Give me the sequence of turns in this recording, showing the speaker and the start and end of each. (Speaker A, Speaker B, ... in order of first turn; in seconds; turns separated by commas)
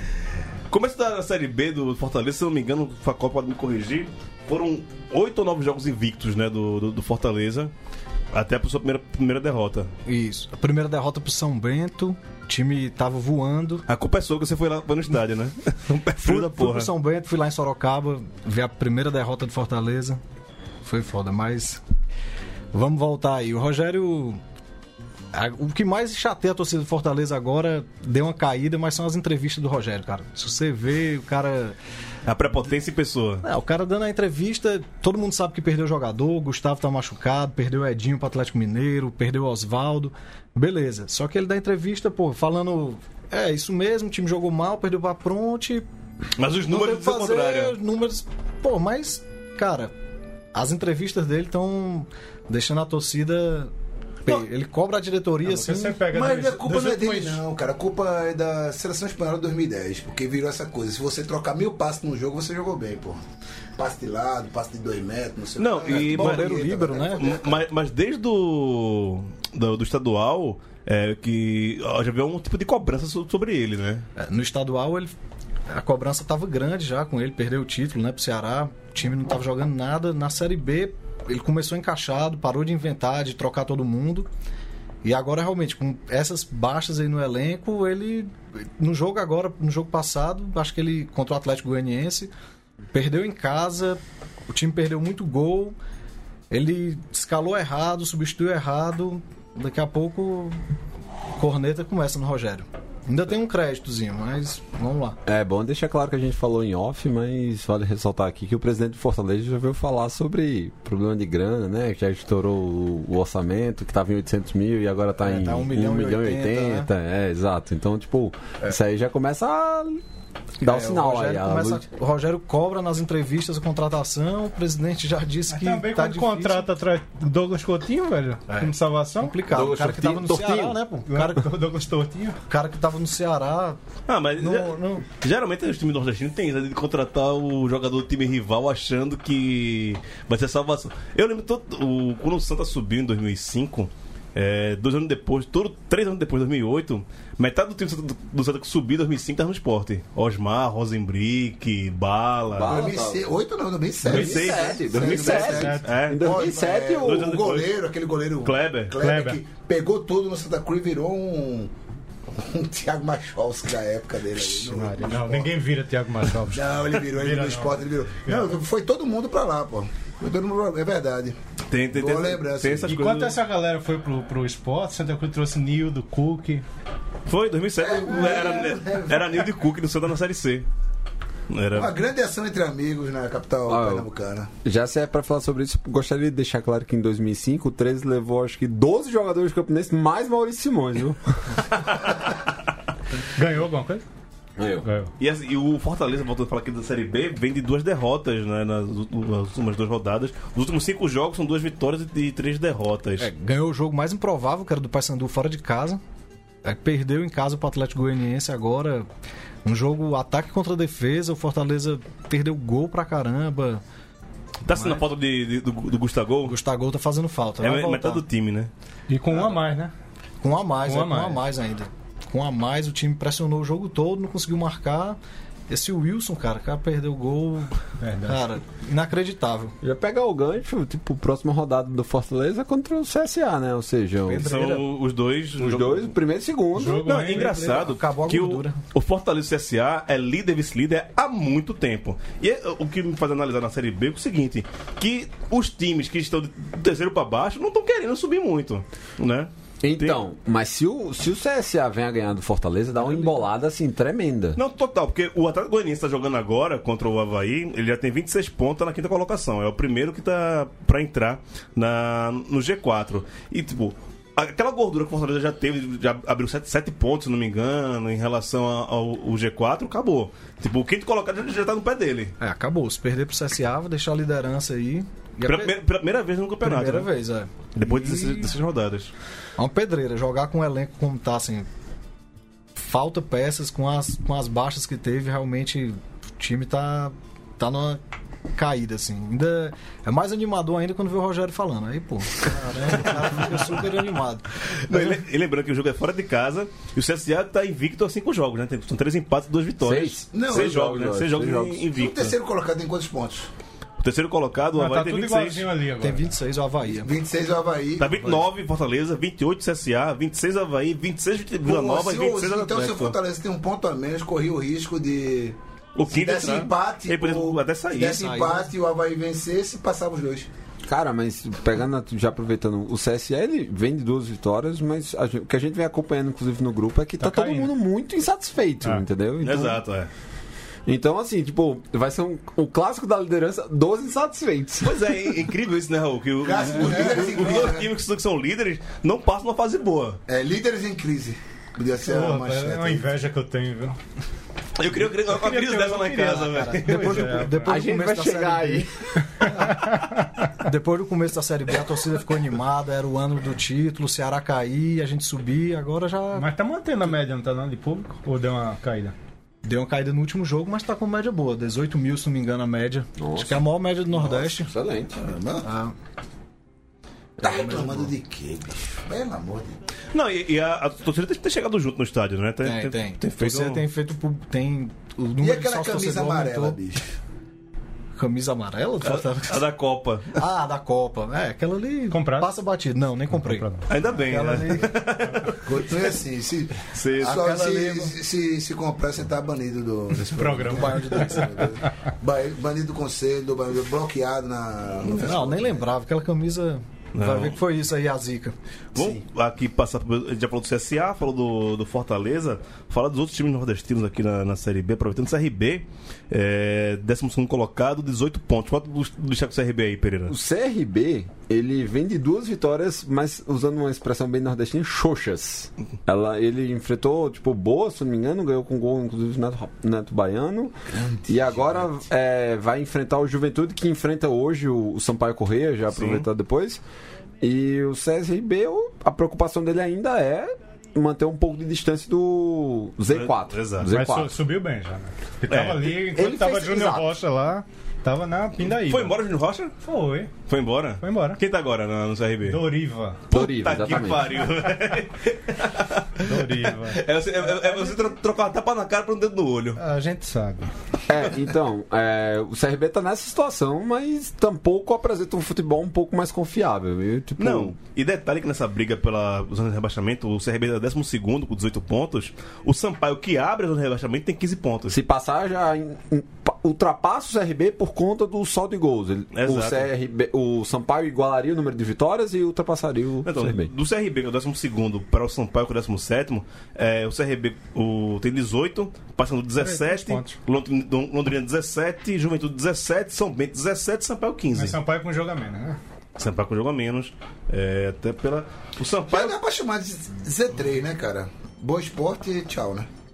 Speaker A: 0.7-7.7, Speaker A: 8.3-9.9, Speaker B: 10.1-13.8, Speaker A: 13.9-16.9, Speaker B: 16.2-20.2, Speaker B: 20.8-21.8, Speaker B: 22.7-24.4, Speaker B: 25.3-31.8, Speaker A: 32.2-33.4, Speaker B: 33.4-45.9, Speaker A: 46.4-47.8, Speaker B: 46.7-49.9, Speaker B: 50.5-53.7, Speaker B: 54.2-56.0, Speaker C: 55.4-57.4, Speaker D: 56.1-63.2, Speaker D: 63.8-67.5, Speaker A: 65.6-74.1, Speaker B: 65.9-67.3, Speaker B: 74.2-75.1, Speaker B: 75.7-84.3, Speaker B: 85.0-92.3, Speaker B: 92.9-95.7, Speaker B: 96.5-100.6, Speaker B: 101.4-105.2, Speaker E: 105.2-120.0, Speaker B: 115.2-116.9, Speaker B: 120.6-126.7, Speaker E: 120.6-121.8, Speaker C: 125.5-129.4, Speaker B: 128.5-131.5, Speaker E: 129.5-130.8, Speaker C: 131.1-132.4, Speaker B: 132.5-133.8, Speaker A: 134.1-152.8, Speaker B: 134.4-135.0, Speaker E: 152.5-153.3, Speaker D: 152.6-161.7, Speaker E: 154.0-157.4, Speaker A: 154.1-156.4, Speaker C: 155.4-155.9, Speaker A: 157.0-157.8, Speaker A: 158.4-158.9, Speaker C: 159.0-159.4, Speaker D: 162.3-165.5, Speaker C: 164.6-168.5, Speaker D: 166.4-171.4, Speaker A: 171.7-173.4, Speaker D: 171.9-172.9, Speaker C: 172.8-176.6, Speaker A: 177.3-180.7, Speaker D: 177.8-179.5, Speaker A: 181.5-181.9, Speaker D: 181.7-184.5, Speaker E: 183.7-184.1, Speaker E: 184.6-191.6, Speaker C: 193.3-194.0, Speaker E: 194.6-194.8, Speaker C: 194.8-195.1, Speaker A: 195.2-203.3, Speaker B: 203.2-206.0, Speaker B: 206.6-209.1, Speaker B: 209.6-213.8, Speaker A: 214.6-216.6, Speaker B: 214.7-215.0, Speaker B: 216.4-218.2, Speaker A: 217.6-218.7, Speaker C: 219.1-219.9, Speaker B: 220.4-225.2, Speaker C: 220.8-221.4, Speaker B: 225.7-229.7, Speaker C: 228.0-228.5, Speaker E: 229.8-234.5, Speaker B: 234.2-234.8, Speaker A: 234.4-236.1, Speaker E: 235.6-237.1, Speaker C: 236.8-237.6, Speaker A: 237.0-250.2, Speaker B: 237.2-238.8, Speaker E: 249.8-254.6, Speaker A: 254.6-272.3, Speaker B: 272.4-275.7, Speaker A: 275.4-277.1, Speaker B: 276.6-278.5, Speaker A: 277.8-279.1, Speaker B: 279.6-281.7, Speaker B: 282.8-288.0, Speaker B: 288.5-295.2, Speaker A: 294.8-302.4, Speaker E: 299.8-301.9, Speaker D: 300.3-300.9, Speaker D: 301.9-303.5, Speaker A: 304.0-305.6, Speaker C: 304.8-306.4, Speaker B: 306.0-307.1, Speaker D: 306.9-308.4, Speaker A: 308.0-313.2, Speaker D: 311.6-315.6, Speaker A: 315.9-318.3, Speaker D: 316.1-320.5, Speaker B: 318.0-318.7, Speaker E: 320.8-329.8, Speaker C: 327.2-327.7, Speaker A: 329.4-330.1, Speaker E: 330.9-335.1, Speaker A: 334.8-340.2, Speaker D: 336.4-337.9, Speaker D: 340.3-343.1, Speaker C: 342.0-344.0, Speaker A: 344.8-347.4, Speaker C: 345.3-347.8, Speaker B: 346.7-348.9, Speaker E: 347.6-349.2, Speaker C: 349.4-350.4, Speaker B: 349.4-349.9, Speaker B: 350.6-356.5, Speaker C: 356.3-359.1, Speaker B: 359.6-364.7, Speaker E: 363.2-365.3, Speaker D: 365.2-365.7, Speaker B: 365.6-365.9, Speaker D: 367.4-369.8, Speaker B: 367.4-368.1, Speaker A: 370.1-373.8, Speaker B: 372.6-376.8, Speaker D: 375.4-377.1, Speaker B: 378.1-379.6, Speaker A: 379.0-380.4, Speaker B: 380.3-383.7, Speaker C: 382.1-382.5, Speaker C: 383.3-383.9, Speaker A: 383.9-385.6, Speaker B: 384.2-385.1, Speaker D: 385.6-395.9, Speaker A: 386.9-387.6, Speaker B: 387.3-388.1, Speaker C: 390.2-391.7, Speaker B: 395.1-398.5, Speaker A: 397.1-397.6, Speaker D: 398.9-399.2, Speaker A: 398.9-410.3, Speaker E: 410.3-420.7, Speaker D: 420.9-421.9, Speaker E: 421.3-426.8, Speaker A: 425.9-426.2, Speaker E: 427.4-434.4, Speaker A: 433.1-433.9, Speaker C: 433.9-439.1, Speaker A: 435.5-436.0, Speaker E: 436.1-437.1, Speaker A: 438.6-439.7, Speaker C: 439.8-440.3, Speaker A: 440.5-442.6, Speaker C: 441.0-441.4, Speaker C: 442.4-443.2, Speaker E: 443.3-444.4, Speaker A: 443.3-449.8, Speaker C: 446.2-448.0, Speaker C: 449.8-450.7, Speaker E: 451.1-457.7, Speaker A: 457.4-465.0, Speaker E: 464.9-473.7, Speaker A: 469.3-469.9, Speaker A: 473.2-484.8, Speaker C: 479.6-480.4, Speaker C: 484.5-485.8, Speaker A: 486.2-489.4, Speaker D: 489.1-492.9